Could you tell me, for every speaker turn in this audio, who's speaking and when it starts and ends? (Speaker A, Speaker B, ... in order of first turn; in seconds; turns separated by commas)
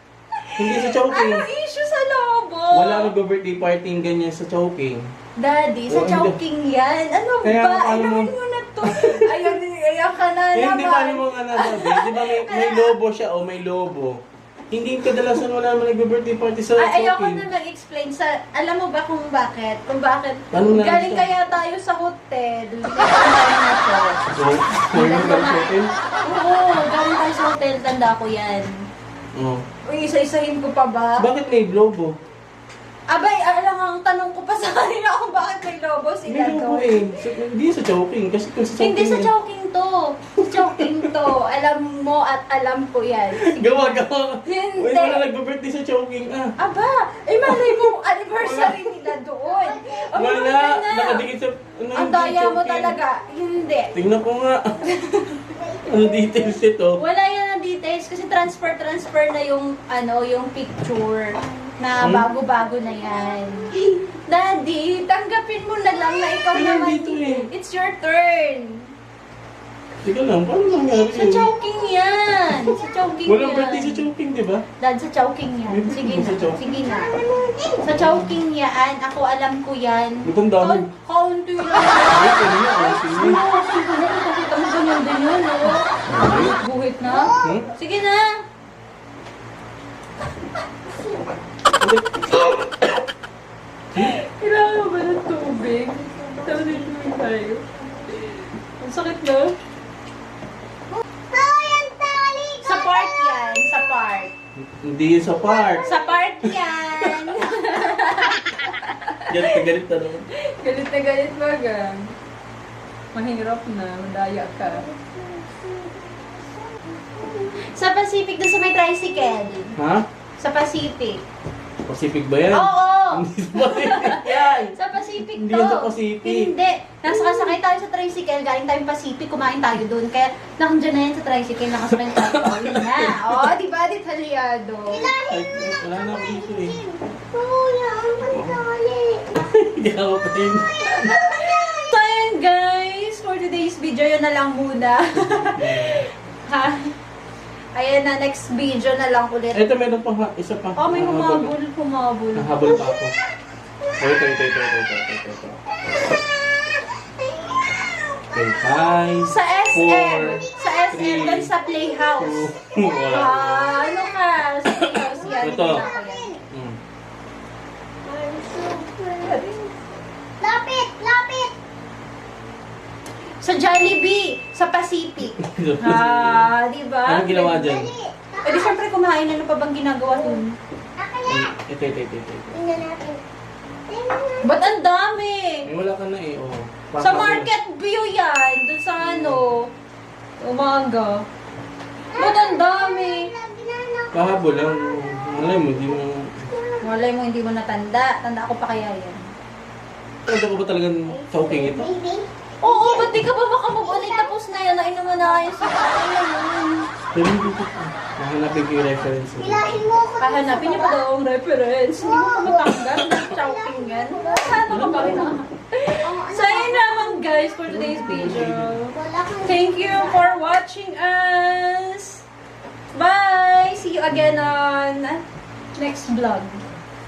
Speaker A: 0.3-3.1, Speaker B: 0.6-1.5, Speaker B: 2.7-5.1, Speaker A: 5.4-12.9, Speaker B: 5.9-6.4, Speaker B: 7.4-9.5, Speaker B: 10.5-14.2, Speaker B: 14.7-17.4, Speaker A: 16.8-24.2, Speaker B: 20.5-21.3, Speaker B: 24.3-25.9, Speaker A: 24.9-28.7, Speaker B: 29.4-29.6, Speaker A: 29.9-31.3, Speaker B: 31.2-32.1, Speaker A: 33.1-37.1, Speaker B: 36.2-39.3, Speaker A: 38.8-45.2, Speaker B: 40.4-41.1, Speaker B: 43.3-46.5, Speaker A: 46.6-51.2, Speaker B: 47.4-49.1, Speaker C: 49.5-50.1, Speaker B: 50.1-53.0, Speaker A: 51.9-53.9, Speaker B: 53.9-54.9, Speaker A: 54.8-55.6, Speaker C: 55.5-56.4, Speaker B: 55.8-57.0, Speaker A: 57.0-68.9, Speaker B: 62.0-62.2, Speaker B: 66.5-67.5, Speaker B: 70.0-71.5, Speaker A: 70.9-74.0, Speaker B: 73.2-74.6, Speaker A: 74.8-77.1, Speaker B: 75.7-76.6, Speaker C: 76.6-77.9, Speaker A: 77.8-88.4, Speaker B: 77.9-78.3, Speaker B: 80.2-80.9, Speaker B: 82.1-83.4, Speaker B: 86.1-86.5, Speaker C: 87.0-87.7, Speaker B: 87.4-87.7, Speaker B: 91.8-92.6, Speaker A: 93.9-99.6, Speaker C: 101.0-103.0, Speaker A: 102.6-104.3, Speaker B: 104.6-105.9, Speaker C: 105.6-106.2, Speaker A: 105.8-109.6, Speaker B: 106.4-107.4, Speaker B: 109.3-110.3, Speaker A: 110.3-112.1, Speaker A: 113.1-114.9, Speaker C: 114.7-117.6, Speaker A: 117.6-119.8, Speaker B: 119.8-120.0, Speaker A: 120.4-121.2, Speaker B: 121.8-126.5, Speaker A: 122.5-135.1, Speaker B: 132.1-133.4, Speaker C: 134.9-139.4, Speaker B: 135.2-136.8, Speaker B: 138.2-138.6, Speaker B: 139.3-141.1, Speaker C: 140.7-141.9, Speaker A: 140.9-146.9, Speaker B: 145.1-146.1, Speaker A: 147.8-149.6, Speaker B: 149.5-151.5, Speaker A: 150.8-152.8, Speaker B: 152.3-153.1, Speaker C: 152.8-153.1, Speaker C: 153.8-154.4, Speaker B: 154.0-155.6, Speaker C: 156.1-158.4, Speaker B: 158.3-161.5, Speaker A: 159.2-162.4, Speaker C: 160.2-164.1, Speaker B: 162.2-163.8, Speaker A: 163.1-166.3, Speaker B: 164.8-165.8, Speaker C: 165.2-166.4, Speaker B: 166.5-166.8, Speaker C: 168.0-169.8, Speaker A: 169.2-169.5, Speaker C: 170.4-171.5, Speaker A: 173.4-177.8, Speaker B: 175.3-176.5, Speaker B: 177.1-177.9, Speaker C: 177.5-178.7, Speaker A: 178.4-180.6, Speaker C: 181.0-181.5, Speaker B: 181.2-182.6, Speaker C: 182.5-183.2, Speaker C: 183.9-184.6, Speaker A: 184.4-185.7, Speaker B: 185.6-187.5, Speaker A: 187.0-189.7, Speaker B: 189.0-189.5, Speaker A: 190.4-191.2, Speaker C: 192.1-196.0, Speaker A: 192.2-193.3, Speaker B: 194.1-196.5, Speaker C: 196.5-196.8, Speaker A: 196.8-199.2, Speaker B: 200.2-201.9, Speaker C: 201.1-203.2, Speaker A: 202.6-206.8, Speaker C: 203.8-204.4, Speaker C: 205.4-205.9, Speaker B: 207.1-209.8, Speaker C: 209.4-211.1, Speaker A: 210.2-222.2, Speaker C: 212.0-215.3, Speaker B: 214.7-215.3, Speaker C: 216.0-217.6, Speaker B: 217.7-218.7, Speaker C: 218.9-220.4, Speaker A: 222.9-225.2, Speaker B: 224.1-224.5, Speaker A: 225.8-226.6